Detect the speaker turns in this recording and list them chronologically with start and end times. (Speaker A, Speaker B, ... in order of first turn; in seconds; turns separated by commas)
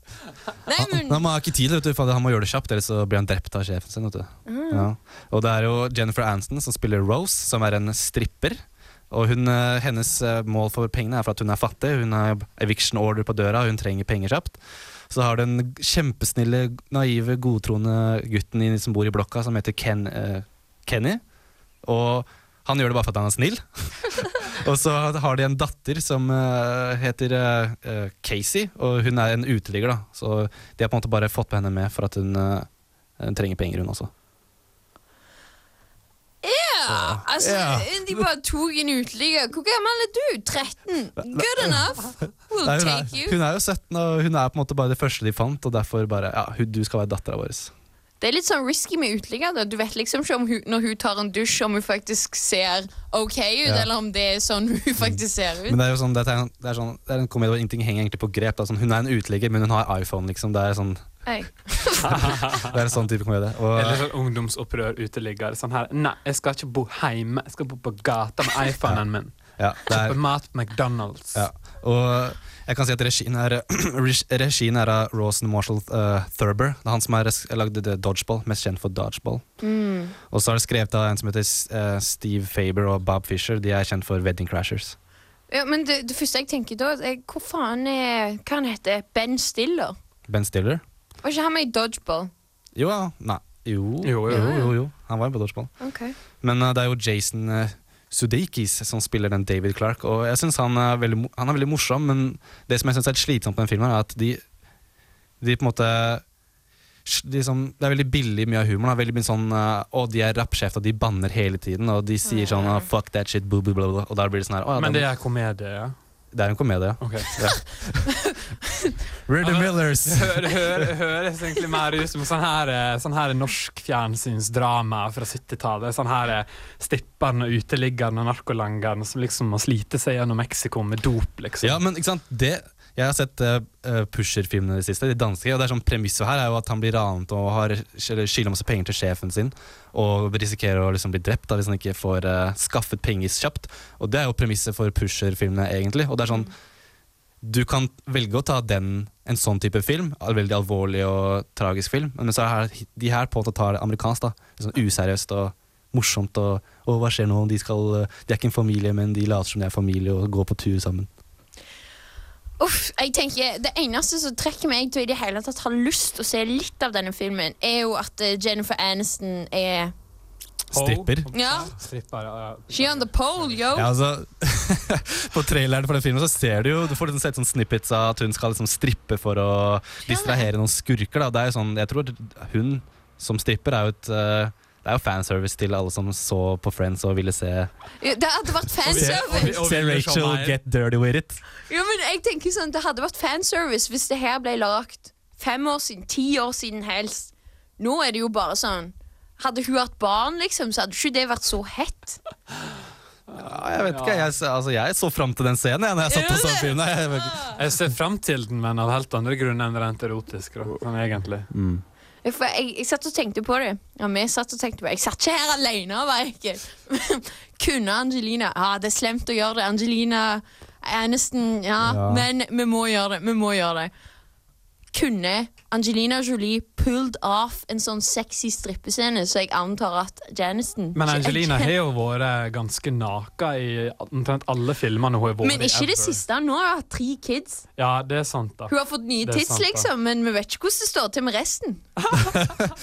Speaker A: 0.7-1.2, Speaker B: 0.8-21.2, Speaker A: 4.5-4.9, Speaker B: 21.8-34.1, Speaker A: 36.4-43.4, Speaker B: 36.9-38.2, Speaker B: 41.2-41.8, Speaker B: 42.6-47.7, Speaker A: 48.2-55.8, Speaker B: 55.0-61.2, Speaker A: 61.3-62.3, Speaker B: 62.1-64.0, Speaker C: 62.1-62.7, Speaker C: 63.7-71.5, Speaker B: 69.6-70.2, Speaker B: 71.3-79.4, Speaker A: 79.6-80.2, Speaker B: 80.3-85.0, Speaker A: 85.5-90.0, Speaker B: 90.3-90.8, Speaker A: 91.2-92.3, Speaker B: 92.8-95.7, Speaker C: 94.0-94.6, Speaker A: 94.3-94.7, Speaker A: 95.8-96.2, Speaker B: 96.4-104.4, Speaker B: 105.4-106.2, Speaker B: 107.1-115.1, Speaker A: 112.3-112.9, Speaker C: 114.8-116.0, Speaker B: 116.3-118.1, Speaker C: 117.0-117.3, Speaker B: 119.3-120.9, Speaker C: 119.4-131.8, Speaker B: 131.6-146.5, Speaker B: 147.4-161.1, Speaker A: 162.6-169.9, Speaker C: 170.7-173.5, Speaker B: 170.7-171.3, Speaker A: 171.3-171.8, Speaker A: 172.7-173.9, Speaker B: 173.7-187.7, Speaker A: 180.1-180.5, Speaker A: 188.0-189.5, Speaker B: 188.8-191.4, Speaker C: 188.9-190.6, Speaker A: 191.7-202.2, Speaker C: 203.3-204.3, Speaker B: 203.4-207.5, Speaker A: 206.1-206.7, Speaker A: 207.2-207.5, Speaker C: 207.6-211.5, Speaker B: 211.5-211.8, Speaker A: 212.2-223.9, Speaker B: 221.8-222.3, Speaker A: 224.9-231.7, Speaker C: 230.9-236.2, Speaker A: 235.4-237.6, Speaker C: 237.8-239.9, Speaker A: 238.7-241.8, Speaker C: 242.0-242.6